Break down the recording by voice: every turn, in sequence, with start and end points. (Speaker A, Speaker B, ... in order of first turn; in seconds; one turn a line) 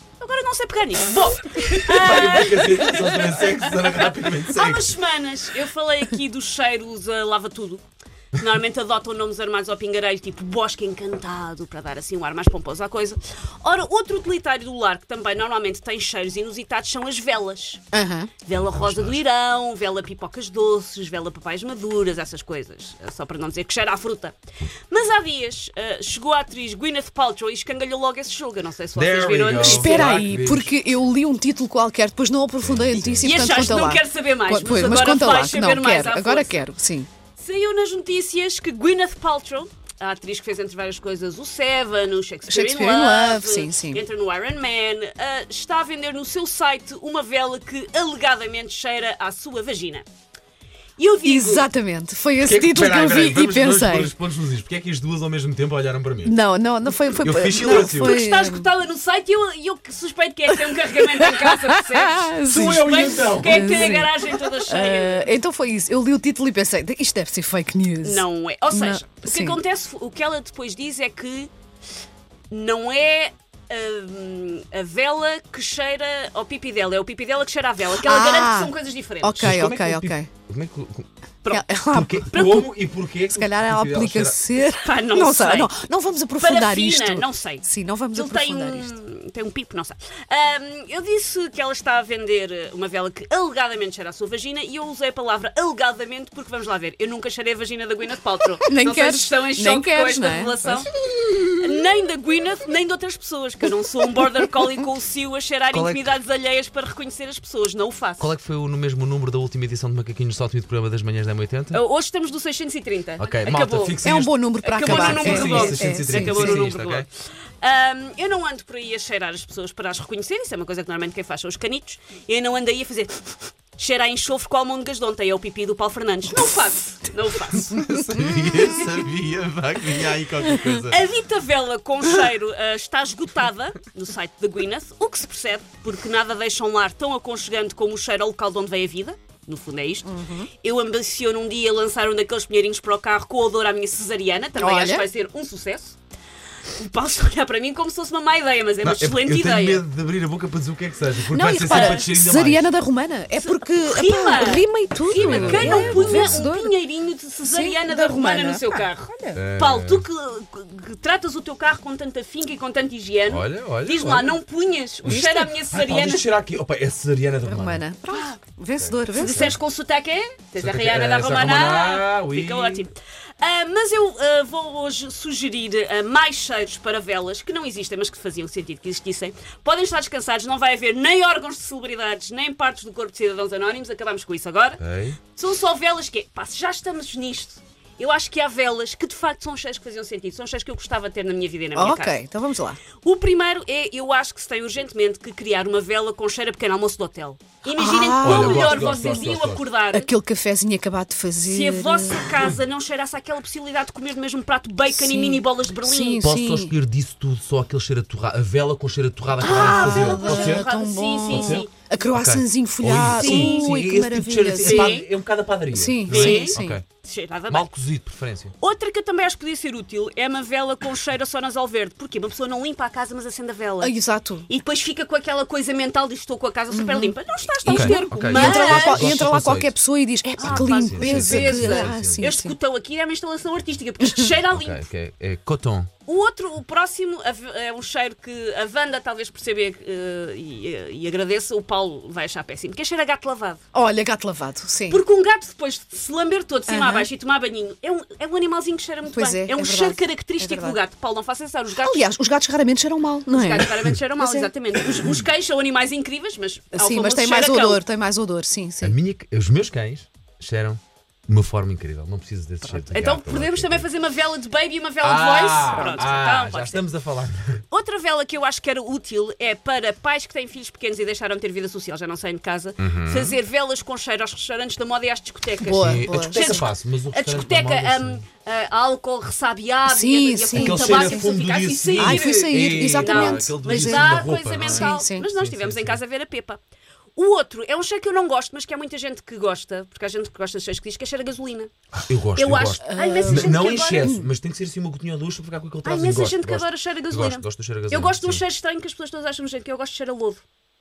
Speaker A: 0.2-3.2
Speaker B: 1.8-4.9
Speaker A: 3.9-17.8
Speaker C: 17.9-18.3
Speaker A: 18.4-24.4
Speaker B: 18.5-19.2
Speaker A: 24.9-30.2
Speaker B: 28.9-30.7
Speaker C: 29.6-37.1
Speaker B: 32.6-33.7
Speaker A: 33.2-36.5
Speaker A: 37.4-50.1
Speaker C: 42.5-44.0
Speaker A: 51.0-51.7
Speaker C: 51.2-54.1
Speaker B: 52.4-56.4
Speaker C: 56.2-58.7
Speaker B: 57.1-58.2
Speaker A: 57.7-65.3
Speaker C: 60.5-69.6
Speaker B: 62.5-63.9
Speaker A: 68.0-71.5
Speaker A: 72.5-79.6
Speaker C: 78.0-80.3
Speaker B: 79.4-81.1
Speaker C: 81.5-82.6
Speaker B: 81.9-84.4
Speaker A: 82.3-82.7
Speaker C: 83.3-89.0
Speaker A: 84.8-85.7
Speaker A: 86.4-108.3
Speaker C: 98.6-100.9
Speaker B: 105.7-106.1
Speaker B: 108.2-111.8
Speaker A: 111.7-114.0
Speaker B: 113.2-117.1
Speaker C: 114.0-116.6
Speaker A: 114.6-117.1
Speaker A: 117.6-127.8
Speaker B: 127.5-131.0
Speaker A: 130.9-146.0
Speaker C: 140.1-140.5
Speaker C: 144.6-145.1
Speaker A: 146.8-149.8
Speaker B: 148.8-152.7
Speaker C: 151.3-156.7
Speaker A: 151.5-152.1
Speaker A: 153.4-166.3
Speaker B: 155.1-156.4
Speaker C: 157.4-159.4
Speaker B: 159.3-160.1
Speaker B: 163.3-164.4
Speaker B: 165.0-167.8
Speaker C: 167.5-169.6
Speaker B: 168.8-169.6
Speaker A: 169.2-184.8
Speaker B: 170.6-172.8
Speaker B: 184.8-185.2
Speaker A: 185.3-192.2
Speaker C: 191.7-192.8
Speaker A: 193.0-200.1
Speaker C: 197.7-199.3
Speaker B: 198.2-199.7
Speaker C: 199.9-202.3
Speaker A: 201.4-206.2
Speaker C: 204.9-206.8
Speaker B: 206.2-210.7
Speaker C: 209.4-215.0
Speaker A: 209.4-211.7
Speaker B: 211.3-216.8
Speaker A: 213.2-213.7
Speaker A: 214.6-215.1
Speaker C: 215.7-216.8
Speaker A: 216.1-217.7
Speaker B: 217.5-218.5
Speaker A: 218.6-229.2
Speaker C: 223.8-224.5
Speaker C: 226.7-232.6
Speaker B: 227.7-229.8
Speaker A: 230.4-234.8
Speaker B: 230.4-232.3
Speaker C: 234.0-234.3
Speaker B: 234.5-235.9
Speaker A: 236.1-243.6
Speaker C: 243.7-245.0
Speaker A: 244.9-252.1
Speaker C: 246.7-247.1
Speaker C: 249.1-250.8
Speaker C: 251.8-254.5
Speaker A: 253.3-257.8
Speaker C: 256.7-259.0
Speaker B: 258.8-263.9
Speaker A: 262.9-266.8
Speaker B: 265.0-267.6
Speaker C: 265.7-266.0
Speaker A: 267.7-286.6
Speaker B: 272.8-273.4
Speaker C: 275.6-276.7
Speaker B: 275.7-278.2
Speaker C: 279.9-281.2
Speaker B: 280.5-286.0
Speaker C: 282.0-285.3
Speaker A: 287.2-291.7
Speaker B: 291.9-298.4
Speaker A: 292.4-294.1
Speaker C: 292.8-294.3
Speaker A: 295.8-300.4